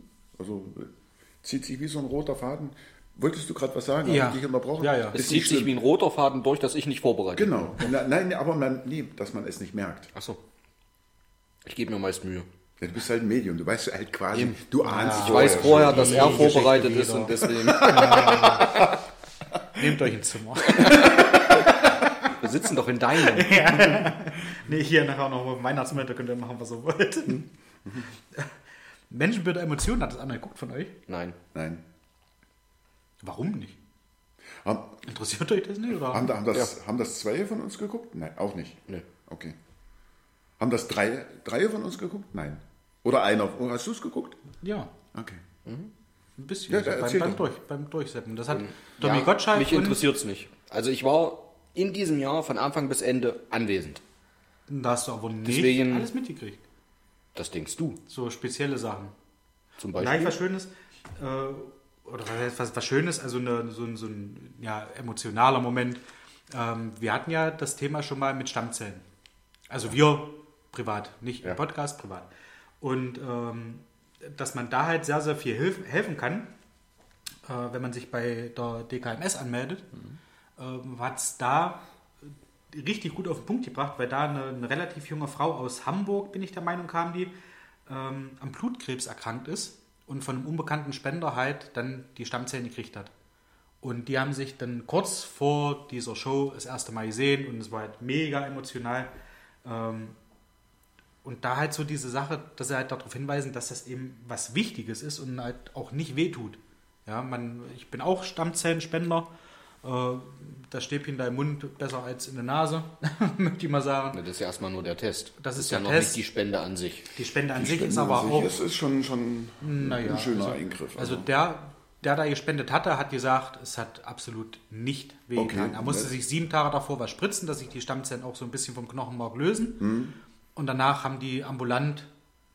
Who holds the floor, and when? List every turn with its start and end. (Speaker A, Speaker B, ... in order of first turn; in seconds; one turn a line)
Speaker A: 0.4-5.7
Speaker B: 4.0-5.2
Speaker C: 5.1-7.8
Speaker A: 7.3-10.1
Speaker C: 11.6-12.5
Speaker A: 12.8-16.6
Speaker C: 14.3-18.5
Speaker B: 14.8-18.9
Speaker A: 17.8-18.7
Speaker B: 19.8-22.1
Speaker C: 20.8-21.4
Speaker C: 22.3-23.9
Speaker B: 23.2-27.5
Speaker B: 29.1-31.0
Speaker C: 31.1-31.4
Speaker A: 31.5-31.8
Speaker B: 33.2-33.8
Speaker A: 34.6-35.0
Speaker B: 35.1-36.3
Speaker A: 36.1-39.6
Speaker A: 40.6-44.4
Speaker B: 44.6-44.9
Speaker A: 45.1-45.4
Speaker C: 45.7-45.9
Speaker B: 46.4-50.0
Speaker A: 46.7-47.5
Speaker C: 48.5-54.0
Speaker B: 54.7-56.6
Speaker C: 55.4-56.1
Speaker C: 57.4-58.0
Speaker B: 58.1-59.1
Speaker C: 59.8-60.4
Speaker B: 60.0-69.0
Speaker B: 69.7-72.3
Speaker B: 72.8-76.5
Speaker B: 77.5-79.9
Speaker B: 80.6-81.8
Speaker B: 82.7-87.3
Speaker B: 87.9-93.1
Speaker B: 93.8-99.1
Speaker B: 99.6-100.2
Speaker B: 101.2-109.3
Speaker B: 109.8-114.2
Speaker C: 114.1-117.1
Speaker B: 115.4-116.2
Speaker B: 117.2-118.6
Speaker A: 117.5-121.3
Speaker B: 119.6-129.9
Speaker A: 125.3-126.1
Speaker A: 129.8-130.2
Speaker B: 130.6-132.1